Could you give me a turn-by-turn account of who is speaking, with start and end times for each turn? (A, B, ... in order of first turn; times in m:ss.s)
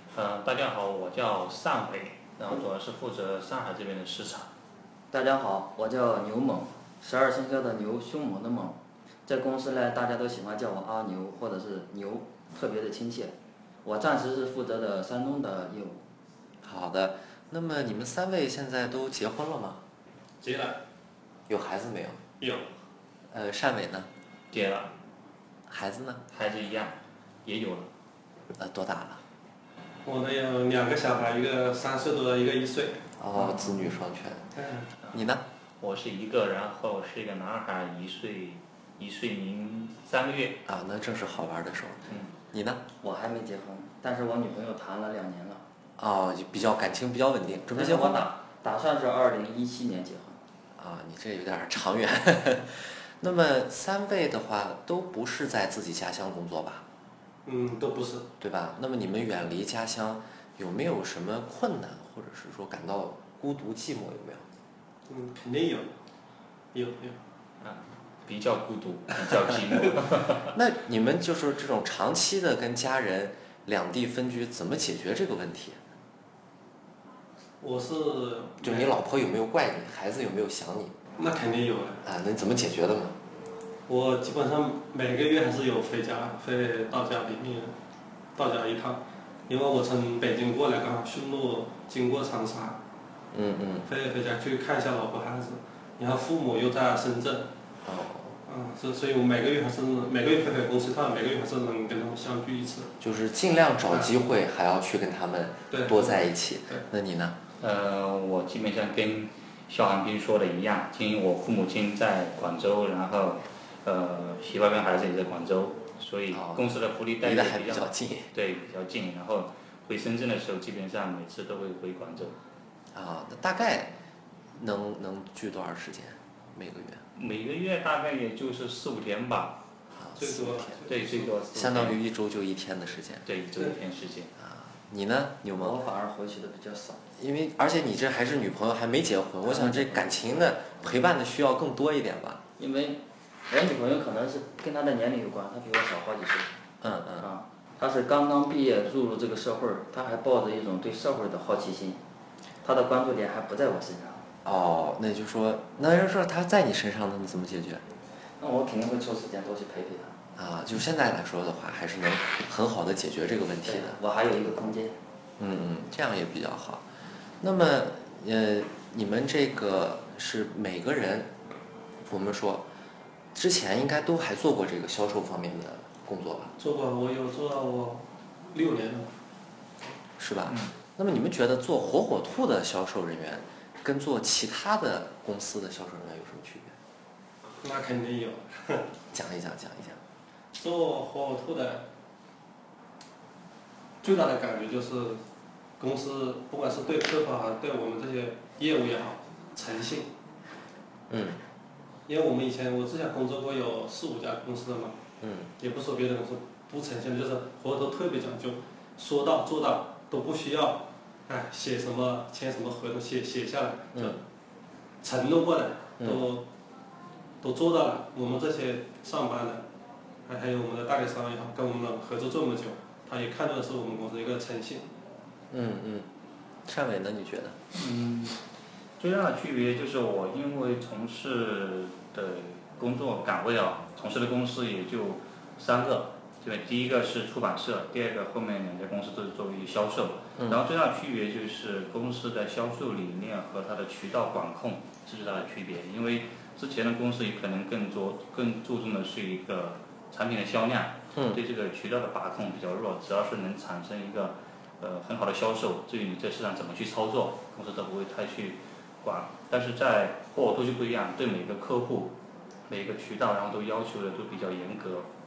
0:00.1-0:04.5 A
0:05.1-0:13.3 B
0:13.8-0:16.0 B
0:16.6-0:19.8 C
0:20.4-0:20.8 D
0:21.5-0:22.2 C
0:22.4-0:22.7 D
0:23.3-0:24.1 C
0:24.5-0:24.9 A
0:25.7-0:26.2 C
0:26.3-0:27.9 A
0:28.6-0:29.2 C
0:30.0-0:33.0 D
0:33.2-0:34.5 C
0:34.6-0:34.9 D
0:35.1-0:35.4 C
0:35.8-0:40.6 A
0:40.6-0:42.8 C
0:43.0-0:45.6 B
0:46.0-0:48.3 C
0:47.7-0:50.4 B
0:50.8-0:56.8 C
0:57.4-0:58.3 D
0:58.4-1:04.4 C
1:05.1-1:05.9 D
1:06.7-1:07.2 D
1:07.6-1:10.5 A
1:10.5-1:15.8 C
1:17.6-1:19.0 D
1:18.6-1:21.0 C
1:21.2-1:22.0 D
1:22.0-1:23.2 C
1:23.9-1:27.8 D
1:28.4-1:32.8 D
1:33.3-1:33.8 C
1:33.8-1:37.5 D
1:37.8-1:38.4 C
1:38.4-1:43.0 D
1:43.0-1:47.4 C
1:45.7-1:46.9 D
1:47.6-2:02.4 A
1:56.3-1:58.3 C
2:02.9-2:03.9 C
2:04.5-2:07.0 C
2:07.1-2:09.6 A
2:09.9-2:10.8 C
2:10.2-2:11.3 D
2:10.8-2:12.0 A
2:11.5-2:13.2 C
2:13.2-2:14.3 A
2:14.4-2:15.8 C
2:15.6-2:17.0 B
2:17.2-2:22.4 C
2:19.4-2:20.4 B
2:22.6-2:26.5 B
2:26.8-2:27.2 C
2:27.2-2:32.0 B
2:32.6-2:34.3 B
2:34.4-2:37.8 C
2:38.4-2:40.1 B
2:40.4-2:44.0 C
2:43.6-2:45.0 B
2:45.4-2:46.9 C
2:47.4-2:51.3 C
2:52.0-2:52.7 C
2:53.3-2:56.5 C
2:56.6-2:59.1 D
3:00.2-3:06.8 C
3:00.5-3:00.7 A
3:07.6-3:08.9 D
3:09.1-3:10.0 C
3:10.5-3:11.9 D
3:14.0-3:15.2 D
3:15.8-3:20.1 D
3:21.1-3:21.4 C
3:22.1-3:25.0 D
3:25.2-3:25.5 C
3:25.6-3:34.2 D
3:33.9-3:34.2 C
3:35.0-3:36.5 D
3:37.4-3:39.6 D
3:40.2-3:44.9 D
3:45.5-3:46.1 C
3:46.7-3:47.6 C
3:47.7-3:48.4 A
3:49.0-4:22.2 A
4:11.1-4:11.4 C
4:22.7-4:25.1 A